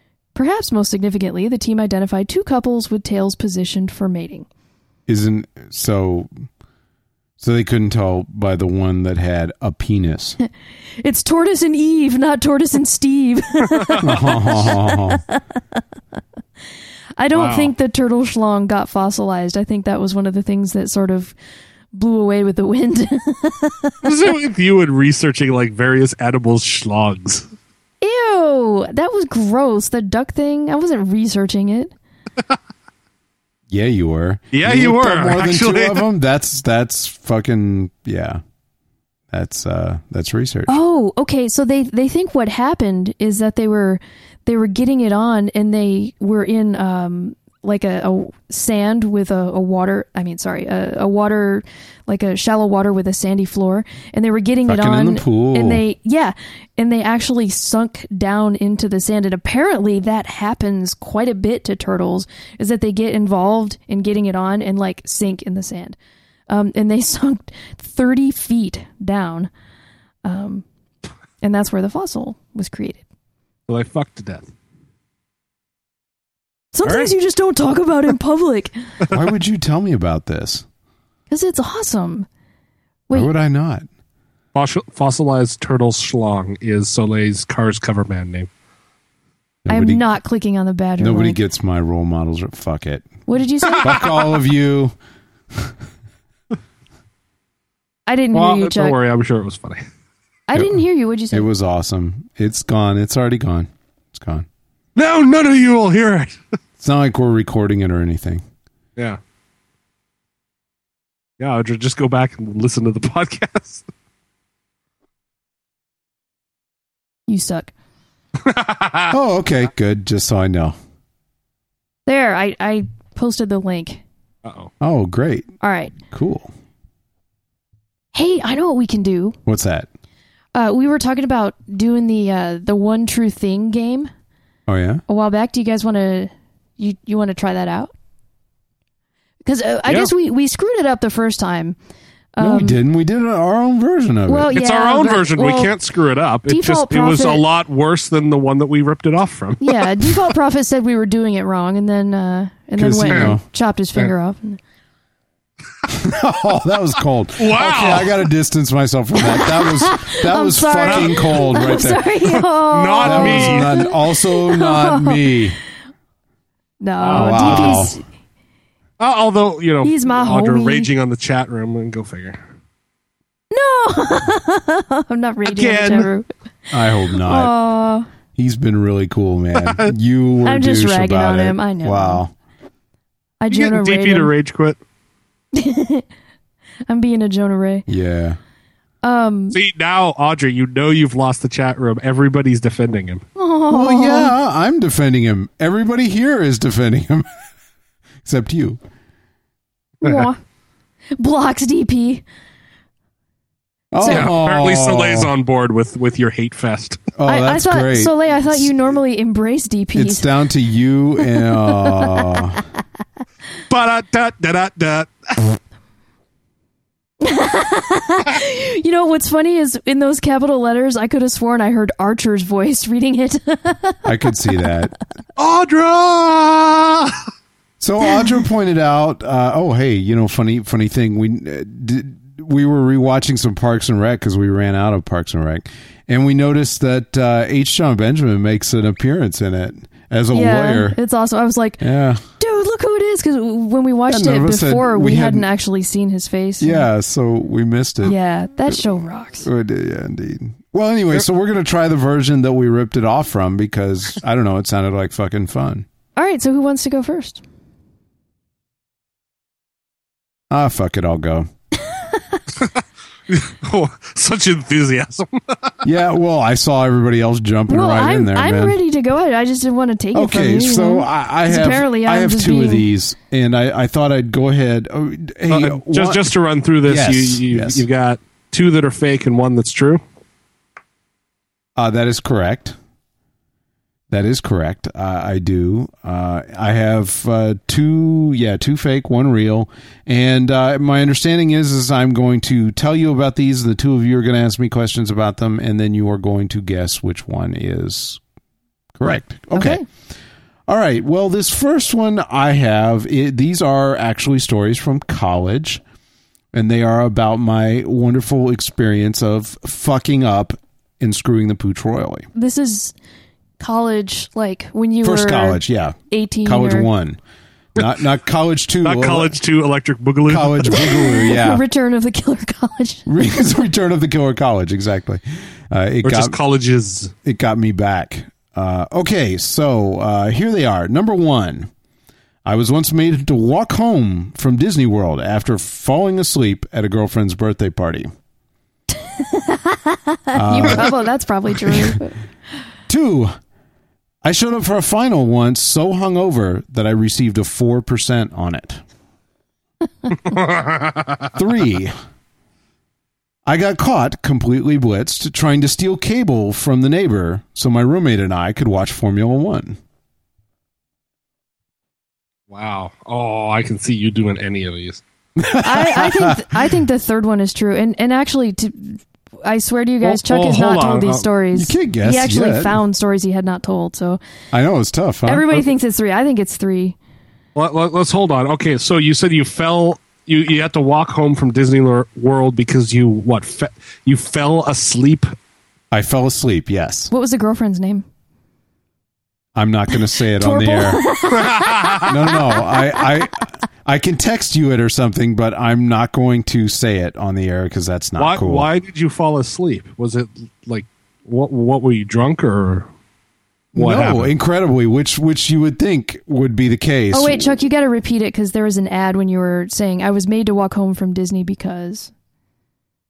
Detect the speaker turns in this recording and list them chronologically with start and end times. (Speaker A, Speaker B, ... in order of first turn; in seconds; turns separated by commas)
Speaker A: 0.3-4.5, Speaker B: 5.1-6.3, Speaker B: 7.4-10.4, Speaker A: 11.0-15.4, Speaker C: 13.7-14.5, Speaker B: 14.0-15.2, Speaker A: 17.2-21.4, Speaker C: 17.3-17.7, Speaker A: 21.9-24.1, Speaker C: 24.0-27.5, Speaker A: 28.0-31.9, Speaker B: 33.7-38.4, Speaker C: 34.5-36.1, Speaker B: 39.3-40.7, Speaker A: 40.7-66.0, Speaker B: 54.7-55.8, Speaker A: 66.5-69.5, Speaker A: 70.2-70.6, Speaker A: 71.4-73.0, Speaker C: 73.7-74.5, Speaker A: 76.7-78.7, Speaker B: 79.1-80.6, Speaker A: 81.3-82.3, Speaker B: 83.1-83.9, Speaker C: 84.5-88.5, Speaker B: 89.6-90.0, Speaker A: 89.7-91.4, Speaker B: 91.0-93.1, Speaker A: 93.2-94.0, Speaker C: 93.7-94.0, Speaker B: 93.8-94.9, Speaker A: 98.1-99.0, Speaker C: 98.3-99.8, Speaker A: 100.5-101.5, Speaker B: 101.3-104.5, Speaker C: 105.0-106.4, Speaker B: 106.8-108.4, Speaker C: 111.4-113.8, Speaker A: 117.3-117.7, Speaker C: 118.4-119.1, Speaker B: 119.1-120.7, Speaker A: 122.0-124.0, Speaker C: 124.4-124.7, Speaker B: 124.8-125.5, Speaker A: 125.6-125.9, Speaker B: 126.1-126.5, Speaker A: 128.1-129.4, Speaker B: 129.4-129.9, Speaker A: 130.5-134.1, Speaker B: 134.7-135.0, Speaker A: 135.1-137.9, Speaker A: 139.4-141.8, Speaker A: 142.3-142.8, Speaker B: 142.4-144.5, Speaker A: 144.3-145.7, Speaker C: 144.5-150.3, Speaker A: 146.5-147.4, Speaker A: 149.6-154.6, Speaker B: 152.8-153.4, Speaker C: 153.1-153.3, Speaker B: 155.9-162.1, Speaker C: 157.4-158.1, Speaker A: 159.2-165.4, Speaker C: 160.8-161.4, Speaker C: 162.3-163.7, Speaker B: 163.0-165.6, Speaker A: 166.8-168.0, Speaker C: 167.0-167.9, Speaker B: 167.1-167.9, Speaker C: 169.0-172.4, Speaker A: 169.8-170.9, Speaker A: 173.5-176.3, Speaker C: 175.4-176.1, Speaker B: 176.7-177.5, Speaker A: 177.1-178.1, Speaker B: 178.3-182.3, Speaker C: 179.5-179.9, Speaker A: 180.4-182.2, Speaker A: 183.4-184.3, Speaker C: 183.5-184.8, Speaker A: 185.5-186.1, Speaker A: 186.9-187.9, Speaker B: 187.9-188.4, Speaker A: 189.0-189.6, Speaker C: 189.5-193.2, Speaker A: 193.3-194.3, Speaker B: 193.7-197.2, Speaker B: 198.2-198.8, Speaker A: 200.0-200.4, Speaker A: 201.2-202.2, Speaker B: 203.9-205.3, Speaker A: 204.0-204.3, Speaker C: 204.0-207.0, Speaker B: 207.2-208.7, Speaker A: 207.2-210.3, Speaker B: 209.9-212.6, Speaker A: 211.4-212.4, Speaker C: 213.7-215.5, Speaker A: 217.2-224.3, Speaker B: 224.0-224.9, Speaker C: 225.4-227.2, Speaker B: 227.8-241.0, Speaker A: 240.3-241.8, Speaker B: 241.8-242.2, Speaker A: 242.4-246.9, Speaker B: 244.1-245.5, Speaker B: 246.6-248.2, Speaker A: 248.0-249.5, Speaker B: 249.4-255.8, Speaker A: 256.1-257.4, Speaker B: 260.5-261.5, Speaker A: 262.1-262.4, Speaker C: 263.3-265.7, Speaker B: 265.8-268.8, Speaker A: 267.7-272.9, Speaker B: 270.1-276.2, Speaker C: 275.5-280.0, Speaker B: 276.8-277.8, Speaker B: 281.8-282.8, Speaker B: 284.1-298.2, Speaker B: 298.9-299.8, Speaker A: 299.5-299.8, Speaker B: 300.7-305.8, Speaker B: 306.5-312.3, Speaker A: 312.3-312.9, Speaker A: 313.6-316.9, Speaker B: 315.0-317.2, Speaker B: 317.7-319.4, Speaker C: 318.8-320.9, Speaker B: 320.3-321.6, Speaker A: 320.7-323.1, Speaker B: 323.1-326.4, Speaker C: 326.0-327.1, Speaker B: 327.2-331.7, Speaker B: 332.4-338.1, Speaker A: 338.9-342.2, Speaker B: 340.3-340.9, Speaker B: 341.6-342.0, Speaker B: 342.9-343.3, Speaker B: 344.2-348.8, Speaker C: 350.2-351.3, Speaker B: 351.3-351.9, Speaker B: 353.4-359.8, Speaker C: 362.5-365.0, Speaker B: 365.4-366.4, Speaker A: 365.5-374.2, Speaker C: 370.0-371.3, Speaker B: 371.5-372.8, Speaker B: 374.5-375.7, Speaker A: 375.2-377.0, Speaker C: 377.5-385.3, Speaker B: 385.9-387.1, Speaker A: 387.1-388.0, Speaker B: 389.5-391.0, Speaker A: 390.4-392.8, Speaker C: 391.3-392.2, Speaker B: 392.1-398.7, Speaker C: 398.2-402.9, Speaker C: 403.7-404.3, Speaker B: 403.7-407.5, Speaker A: 407.1-412.1